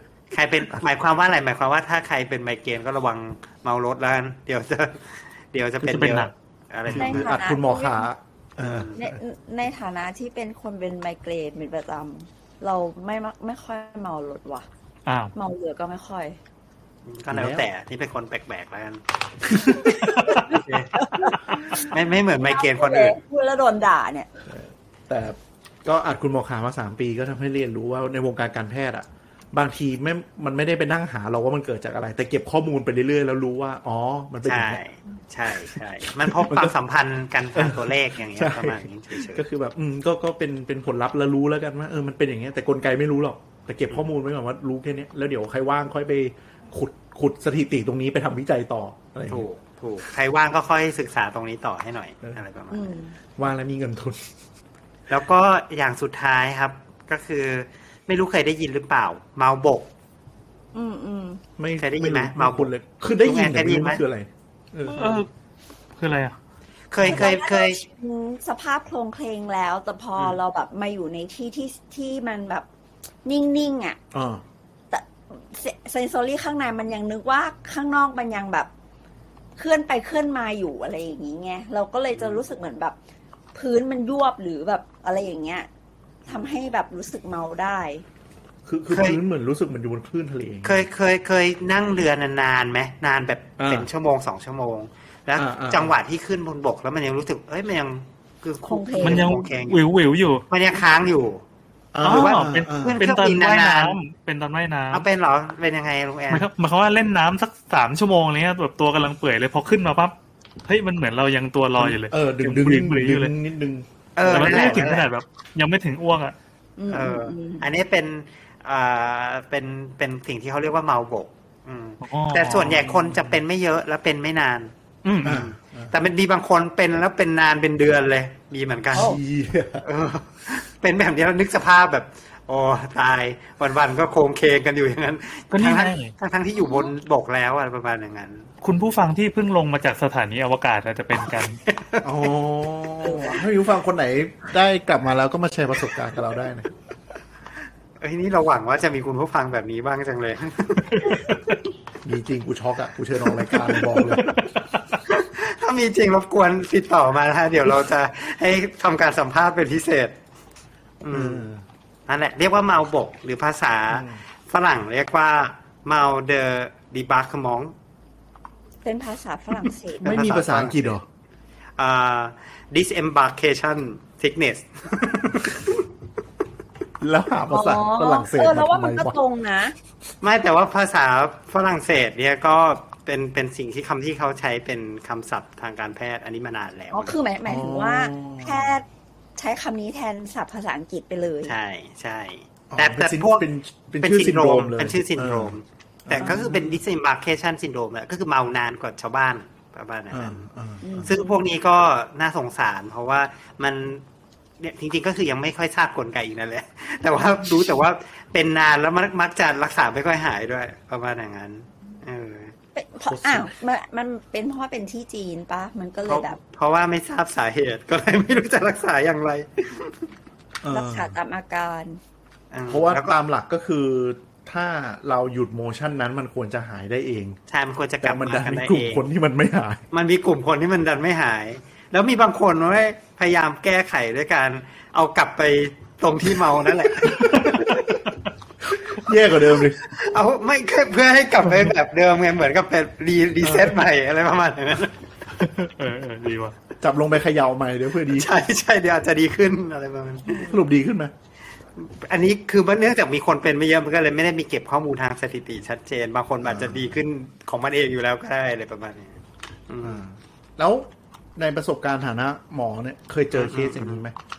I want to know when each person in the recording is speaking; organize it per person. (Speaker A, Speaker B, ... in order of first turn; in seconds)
Speaker A: 0.3-7.4, 8.6-8.9, 17.0-23.1, 34.4-39.4, 49.3-53.0, 55.1-59.9, 61.8-62.7, 63.2-64.0, 66.9-67.8, 82.2-82.4, 88.9-89.2, 90.6-99.8, 100.5-101.4, 102.0-104.0, 104.9-106.5, 114.2-115.0, 116.9-129.2, 129.8-138.5, 141.7-142.1, 148.0-151.7, 155.0-160.1, 161.0-161.4, 162.1-167.7, 170.0-170.9, 171.8-175.8, 180.2-187.2, 191.4-193.5, 194.0-200.4, 201.0-204.0, 204.6-212.5, 216.1-220.1, 222.5-223.1, 227.5-229.0, 229.9-238.0, 239.8-245.0, 248.1-250.5, 251.8-259.2, 259.7-260.0, 263.3-264.0
Speaker B: 5.8-6.3, 15.1-15.3, 20.1-20.5, 64.9-65.3, 66.0-66.3, 99.0-100.4, 102.0-105.0, 106.3-113.3, 114.2-116.3, 122.0-122.9, 125.0-125.5, 135.5-136.1, 138.6-141.6, 245.5-246.5
Speaker C: 6.9-9.1, 17.3-17.7, 19.6-20.3, 24.5-34.8, 35.5-36.7, 37.5-49.5, 53.4-54.3, 61.6-65.2, 74.1-74.4, 88.7-90.8, 93.6-93.9, 95.3-95.9, 101.9-103.0, 111.8-114.9, 122.7-123.4, 125.2-125.9, 128.9-129.8, 142.0-146.7, 152.0-154.4, 161.1-161.6, 163.9-164.2, 170.0-171.0, 177.0-179.2, 187.4-188.7, 192.7-195.5, 196.1-196.8, 200.1-201.1, 213.1-213.5, 220.6-221.1, 222.7-227.4, 228.0-229.8, 237.0-238.0, 238.6-239.8, 243.4-243.8, 246.8-248.3, 250.4-251.1, 256.4-257.0, 259.8-264.1
Speaker D: 6.9-8.1, 8.9-14.7, 15.3-16.4, 20.9-24.3, 52.7-53.1, 60.7-61.4, 67.0-72.7, 73.2-74.0, 74.9-78.7, 79.6-82.9, 83.5-85.7, 86.2-88.0, 98.6-99.3, 116.8-117.7, 136.6-136.9, 143.0-143.4, 168.8-170.2, 177.5-179.7, 186.9-188.8, 189.3-191.5, 200.8-201.4, 212.7-216.4, 220.7-222.0